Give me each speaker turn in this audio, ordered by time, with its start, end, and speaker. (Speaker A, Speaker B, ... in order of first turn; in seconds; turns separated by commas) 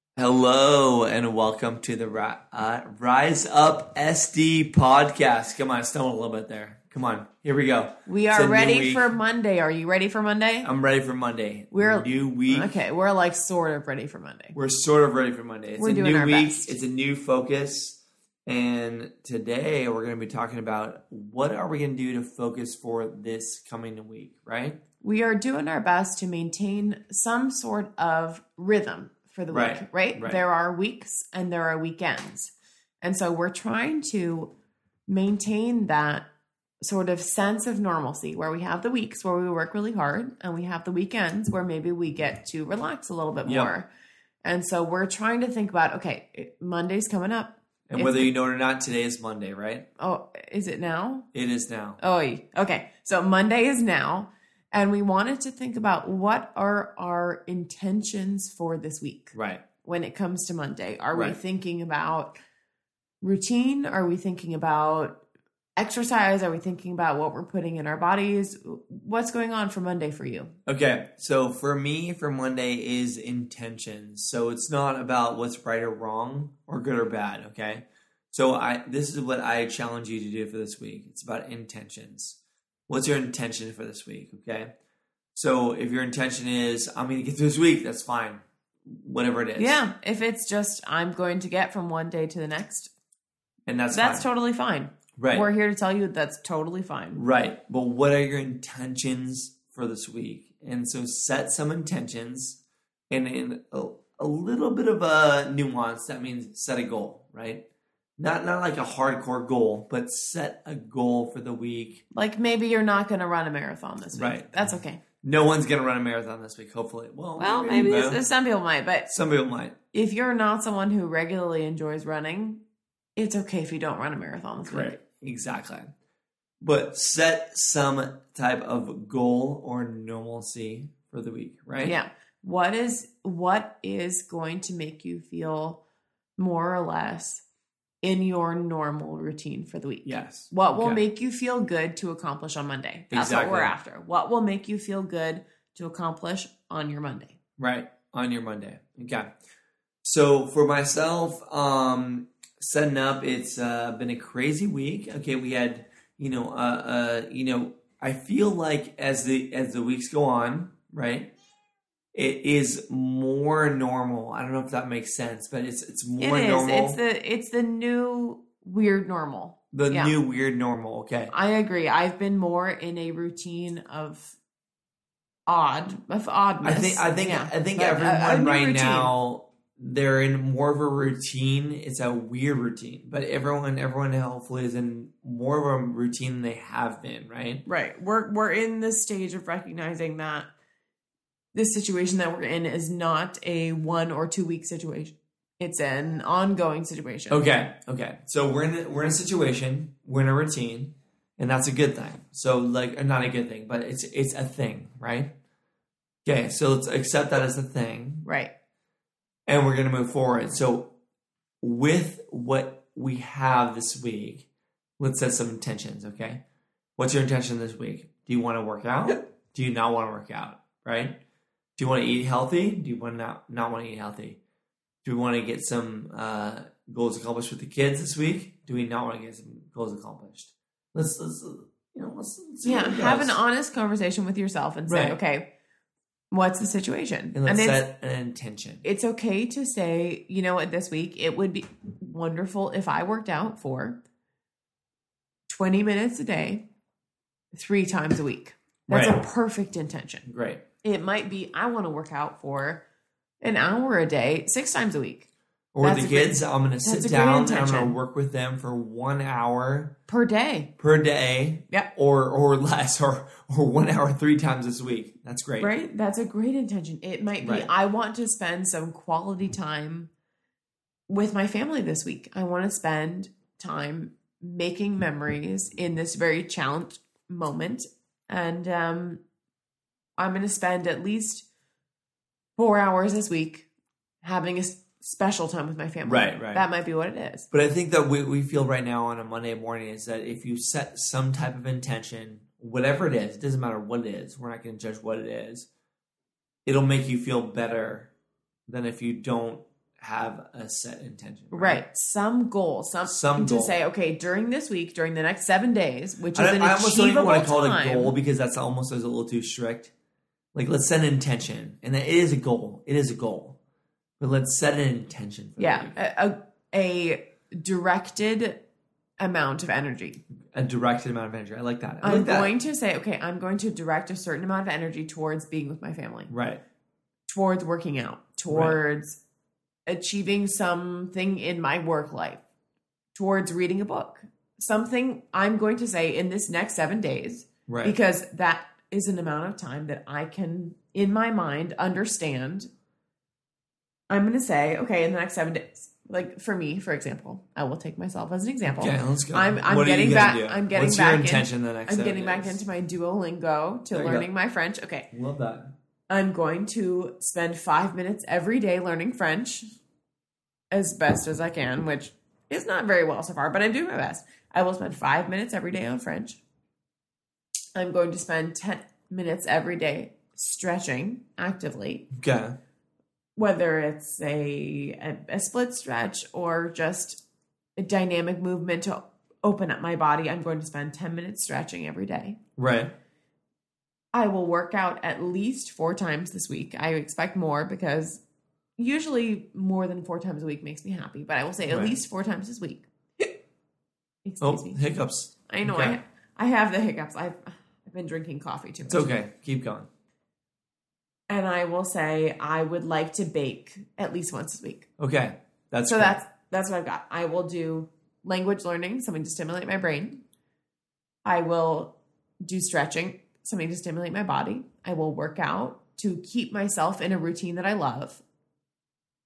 Speaker A: 0.2-9.1, Speaker B: 8.1-10.7, Speaker A: 10.6-12.8, Speaker B: 11.7-14.6, Speaker A: 14.5-24.8, Speaker B: 15.8-16.8, Speaker B: 25.0-34.5, Speaker A: 29.5-30.4, Speaker B: 35.1-36.2, Speaker B: 36.8-43.9, Speaker A: 43.5-43.7, Speaker B: 44.4-48.3, Speaker A: 47.9-49.9, Speaker B: 50.0-51.3, Speaker A: 51.3-52.0, Speaker B: 52.0-62.4, Speaker A: 59.3-59.6, Speaker A: 61.1-61.4, Speaker B: 63.2-65.2, Speaker B: 65.8-70.5, Speaker A: 70.7-84.7, Speaker A: 85.3-89.8, Speaker B: 89.6-92.9, Speaker A: 93.7-94.3, Speaker B: 93.9-97.2, Speaker A: 95.2-95.5, Speaker A: 97.1-107.6, Speaker A: 108.2-112.0, Speaker B: 112.1-115.0, Speaker A: 114.1-118.2, Speaker B: 117.4-119.1, Speaker A: 119.1-119.8, Speaker B: 119.9-122.6, Speaker B: 123.2-125.0, Speaker A: 124.7-125.9, Speaker A: 126.6-131.9, Speaker B: 131.8-135.8, Speaker B: 136.4-137.4, Speaker B: 138.0-147.4, Speaker A: 140.1-141.0, Speaker A: 143.1-143.7, Speaker A: 147.6-149.3, Speaker A: 150.0-161.3, Speaker A: 162.1-167.0, Speaker B: 166.2-170.2, Speaker A: 169.7-171.3, Speaker B: 171.3-174.4, Speaker B: 175.5-179.1, Speaker A: 176.6-187.6, Speaker B: 187.7-190.5, Speaker B: 191.5-197.4, Speaker A: 197.3-205.3, Speaker A: 206.2-208.2, Speaker B: 208.2-208.5, Speaker A: 209.5-210.9, Speaker A: 211.6-214.5, Speaker A: 215.0-216.4, Speaker A: 217.0-221.2, Speaker A: 221.8-224.4, Speaker A: 225.0-233.4, Speaker B: 232.6-235.5, Speaker A: 234.9-235.2, Speaker B: 236.3-237.8, Speaker A: 237.3-238.8, Speaker B: 238.8-244.0, Speaker B: 245.5-246.6, Speaker B: 247.5-250.2, Speaker A: 248.9-249.2, Speaker A: 250.2-250.6, Speaker B: 250.8-252.8, Speaker B: 253.4-255.3, Speaker A: 255.7-259.9, Speaker B: 255.8-258.0, Speaker B: 260.1-260.7, Speaker A: 260.8-265.7, Speaker B: 265.6-270.1, Speaker A: 267.4-267.7, Speaker B: 271.1-279.2, Speaker B: 280.2-281.5, Speaker B: 282.6-283.7, Speaker B: 284.2-287.5, Speaker A: 286.0-286.6, Speaker A: 287.5-295.7, Speaker A: 296.7-298.1, Speaker A: 298.7-301.8, Speaker B: 301.5-308.1, Speaker A: 303.1-303.8, Speaker A: 306.3-309.9, Speaker A: 310.5-313.6, Speaker A: 314.2-315.9, Speaker B: 315.6-318.6, Speaker B: 319.2-320.2, Speaker A: 320.5-322.5, Speaker B: 322.0-326.3, Speaker A: 326.3-326.6, Speaker B: 327.3-329.2, Speaker A: 328.5-328.8, Speaker B: 329.9-332.4, Speaker B: 333.1-342.7, Speaker A: 337.7-337.9, Speaker B: 344.1-355.1, Speaker A: 348.7-352.6, Speaker A: 353.9-354.3, Speaker A: 355.1-355.7, Speaker B: 356.1-359.6, Speaker B: 360.7-366.4, Speaker B: 367.8-372.1, Speaker A: 372.2-372.6, Speaker B: 373.4-377.2, Speaker B: 377.8-382.4, Speaker A: 382.6-382.9, Speaker B: 384.1-388.2, Speaker B: 388.8-393.3, Speaker A: 391.7-392.0, Speaker B: 394.2-394.8, Speaker A: 394.4-396.0, Speaker B: 395.5-399.2, Speaker A: 398.9-399.9, Speaker B: 401.3-404.9, Speaker A: 405.0-406.2, Speaker B: 405.9-410.2, Speaker B: 411.2-418.2